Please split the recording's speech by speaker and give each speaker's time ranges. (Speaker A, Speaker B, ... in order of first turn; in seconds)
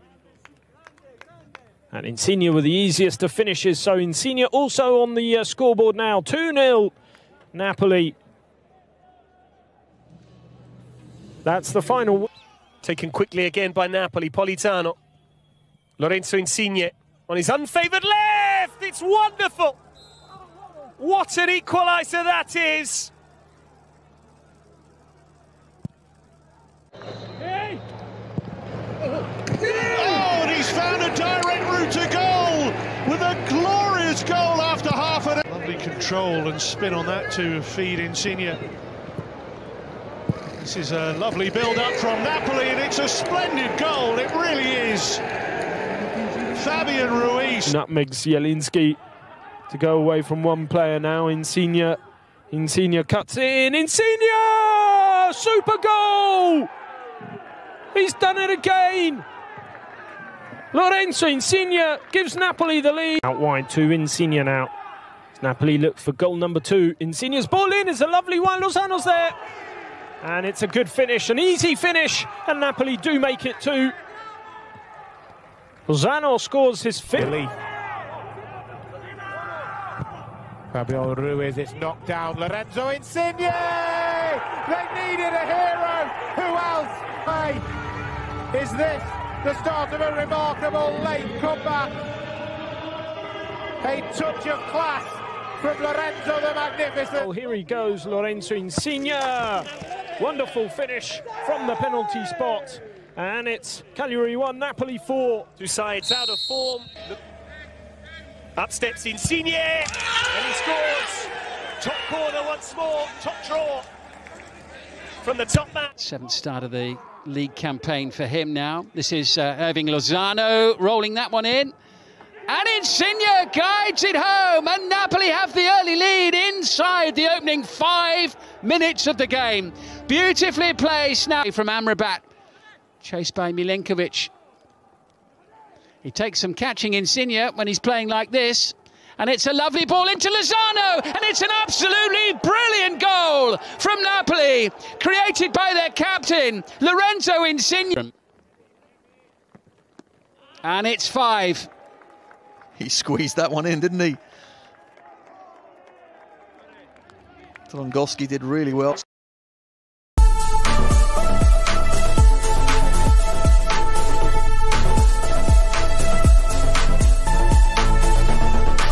Speaker A: 1.9-6.9, 7.5-8.2, 11.4-12.3, 47.6-49.0, 49.7-52.0, 52.5-56.7, 57.9-59.2, 60.7-64.7, 65.4-69.3, 70.2-73.9, 75.9-77.3, 97.2-105.5
Speaker B: 12.8-15.0, 16.0-19.8, 21.0-23.1, 105.6-107.2, 108.6-113.8, 115.2-115.9
Speaker C: 29.9-38.5, 40.6-45.2, 46.5-47.5
Speaker D: 77.2-77.5, 80.7-87.6, 88.5-92.0, 93.8-97.3
Speaker E: 116.0-121.7, 122.5-132.2, 133.0-134.3, 136.0-148.1, 150.6-151.7
Speaker F: 152.8-154.2, 157.7-159.0